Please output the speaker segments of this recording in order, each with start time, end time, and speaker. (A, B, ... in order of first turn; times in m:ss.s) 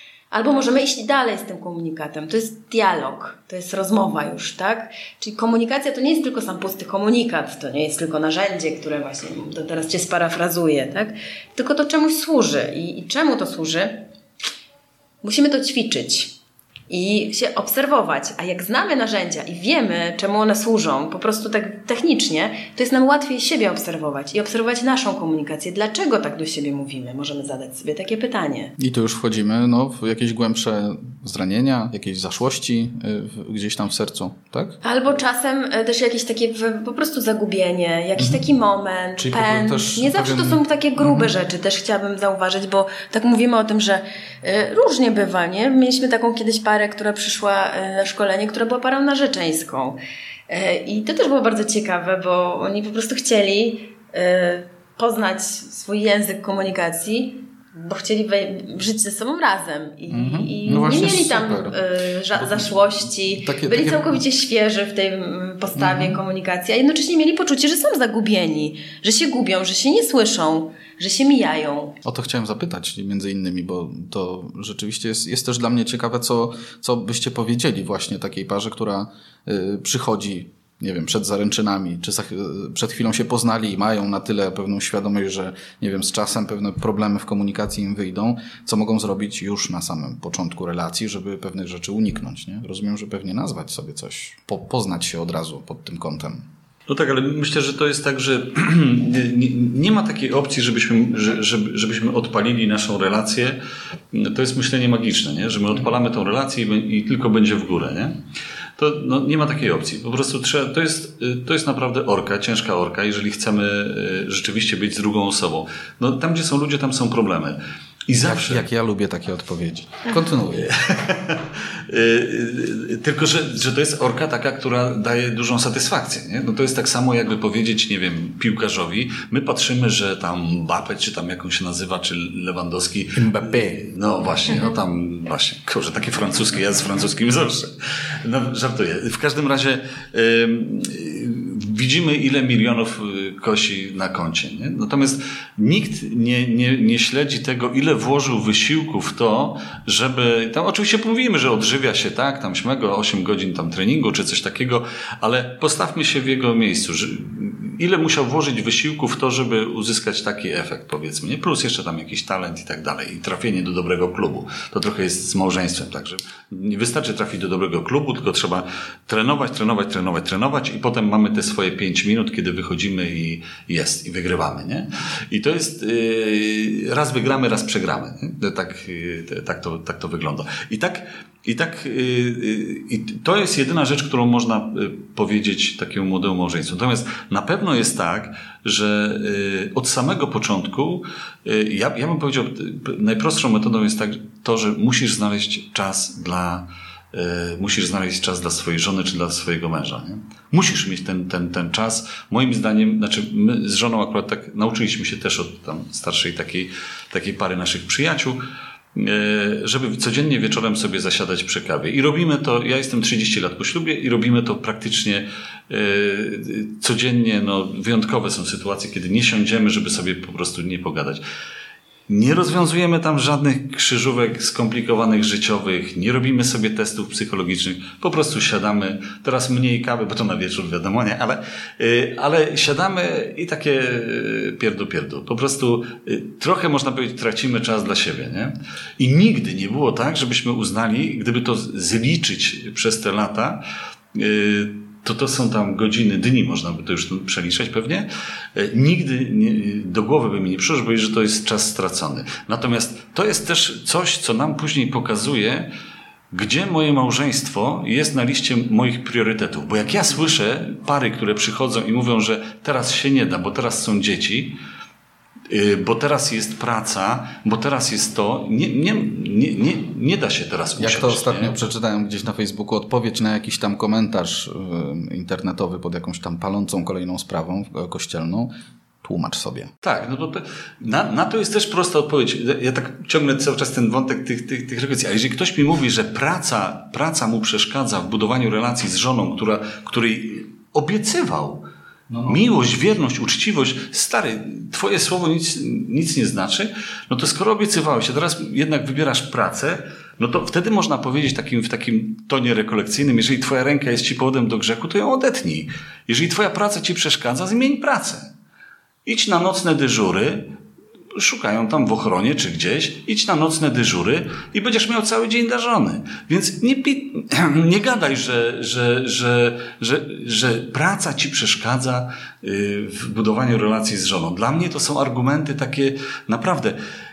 0:00.3-0:14.0 A
0:15.2-0:16.4 A
0:16.9-0:28.7 A
0:28.8-0:34.8 B
0:34.8-0:50.0 A
0:38.2-0:38.4 B
0:39.2-0:41.3 B
0:50.5-1:12.0 A
1:00.1-1:01.8 B
1:02.3-1:04.2 B
1:05.8-1:06.2 B
1:12.0-1:36.4 B
1:36.9-1:43.6 C
1:44.1-1:48.2 C
1:48.8-1:57.6 C
1:58.1-1:58.6 C
1:58.2-2:00.7 B
2:00.6-3:28.4 C
2:13.1-2:13.8 B
3:28.9-3:41.2 C
3:42.1-4:03.6 C
4:04.1-4:15.7 C
4:16.3-4:24.6 C
4:25.5-4:31.5 C
4:30.8-4:38.5 B
4:39.0-4:39.7 B
4:39.8-4:51.6 C
4:52.1-4:52.4 B
4:52.2-5:08.3 C
5:09.0-5:10.5 C
5:11.2-5:26.8 C